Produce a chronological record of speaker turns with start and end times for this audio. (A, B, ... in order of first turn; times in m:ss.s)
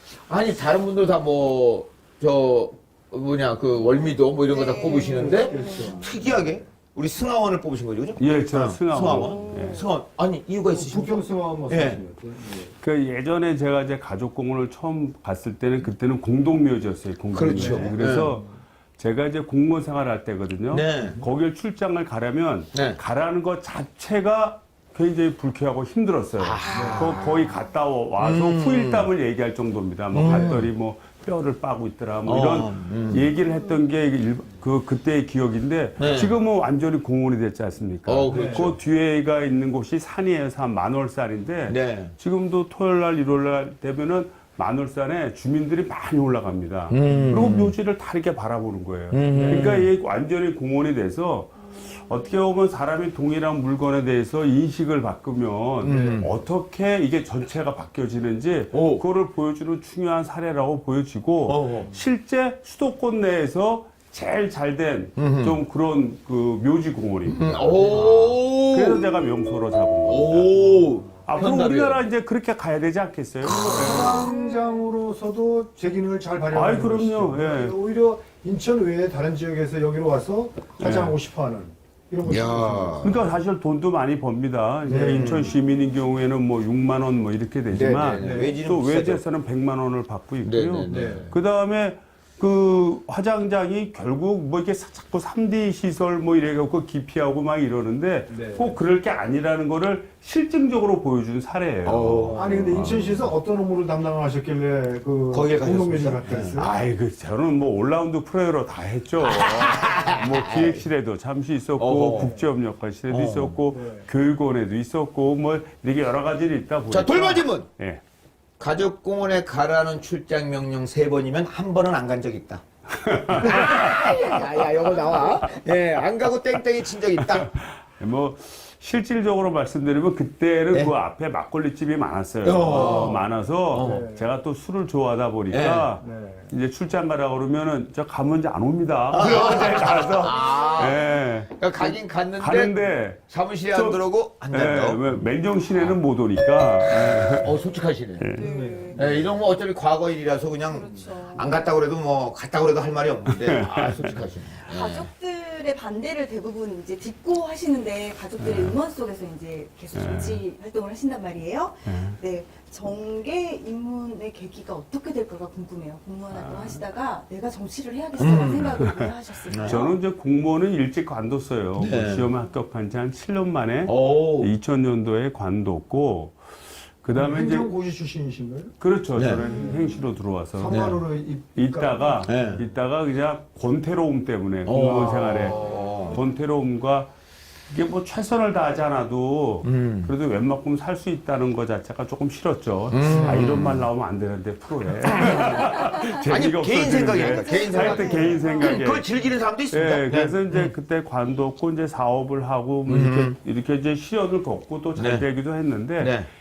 0:00.3-0:12.0 A
0:04.5-0:05.9 B
0:04.8-0:06.6 C
0:08.2-0:09.8 D
0:09.1-0:09.8 B
0:10.7-0:12.7 C
0:12.8-1:14.1 D
0:17.3-0:18.3 A
0:17.5-0:18.4 C
0:20.7-0:21.2 A
0:22.7-0:23.0 A
0:26.4-0:27.2 A
0:26.7-0:27.2 C
0:26.8-0:27.5 B
0:28.2-0:29.1 A
0:30.1-0:30.7 A
0:32.2-0:33.3 A
0:36.0-0:36.4 A
0:38.0-0:38.8 A
0:38.3-0:38.7 C
0:41.7-0:42.1 A
0:46.9-0:47.8 A
0:49.1-0:49.9 A
0:55.8-0:56.3 A
0:58.7-0:59.0 A
1:01.4-1:01.9 A
1:05.2-1:05.6 A
1:07.2-1:09.1 A
1:07.9-1:08.3 C
1:10.1-1:12.0 A
1:13.4-1:14.2 A
1:13.6-1:23.0 C
1:13.8-1:14.8 B
1:16.5-1:17.8 D
1:20.8-1:21.2 D
1:22.2-1:23.3 A
1:23.0-1:43.3 D
1:24.8-1:25.4 C
1:25.1-1:25.5 A
1:27.7-1:29.2 A
1:28.2-1:28.5 C
1:30.4-1:31.4 A
1:30.9-1:31.3 C
1:38.3-1:38.8 C
1:41.8-1:43.0 A
1:42.3-1:46.8 C
1:45.3-1:46.6 A
1:46.3-1:58.0 D
1:49.2-1:50.8 A
1:51.8-1:52.4 A
1:52.1-1:52.4 C
1:53.1-1:53.6 A
1:53.7-1:54.1 C
1:56.9-1:57.7 A
1:58.6-2:02.6 A
2:02.9-2:05.4 D
2:03.3-2:07.5 A
2:07.2-2:27.5 D
2:12.4-2:14.1 A
2:12.6-2:13.2 C
2:13.8-2:14.3 C
2:15.5-2:15.9 A
2:16.0-2:16.5 C
2:19.1-2:21.1 A
2:20.4-2:21.1 B
2:21.6-2:25.1 A
2:26.9-2:28.4 A
2:28.2-2:28.5 D
2:28.3-2:29.0 B
2:28.4-2:29.3 C
2:28.9-2:35.1 A
2:30.6-2:31.6 B
2:33.3-2:34.2 D
2:34.6-2:50.0 B
2:38.4-2:38.8 D
2:39.9-2:40.4 D
2:41.9-2:42.2 D
2:46.3-2:46.8 D
2:48.2-2:48.8 A
2:48.4-2:56.4 D
2:49.5-2:49.8 A
2:51.8-2:52.3 A
2:53.8-2:54.5 A
2:57.0-2:57.7 D
2:57.1-2:58.8 C
2:58.8-3:01.0 D
2:59.1-2:59.5 A
2:59.3-3:00.1 B
3:00.5-3:02.6 C
3:00.6-3:01.0 A
3:01.5-3:07.1 D
3:02.2-3:02.6 A
3:04.6-3:06.2 A
3:05.4-3:06.2 B
3:07.7-3:19.1 D
3:09.6-3:10.1 A
3:12.9-3:13.9 A
3:13.0-3:13.4 C
3:16.2-3:20.7 A
3:17.2-3:18.8 B
3:19.7-3:26.2 D
3:22.9-3:23.4 A
3:25.0-3:25.2 A
3:26.0-3:26.3 A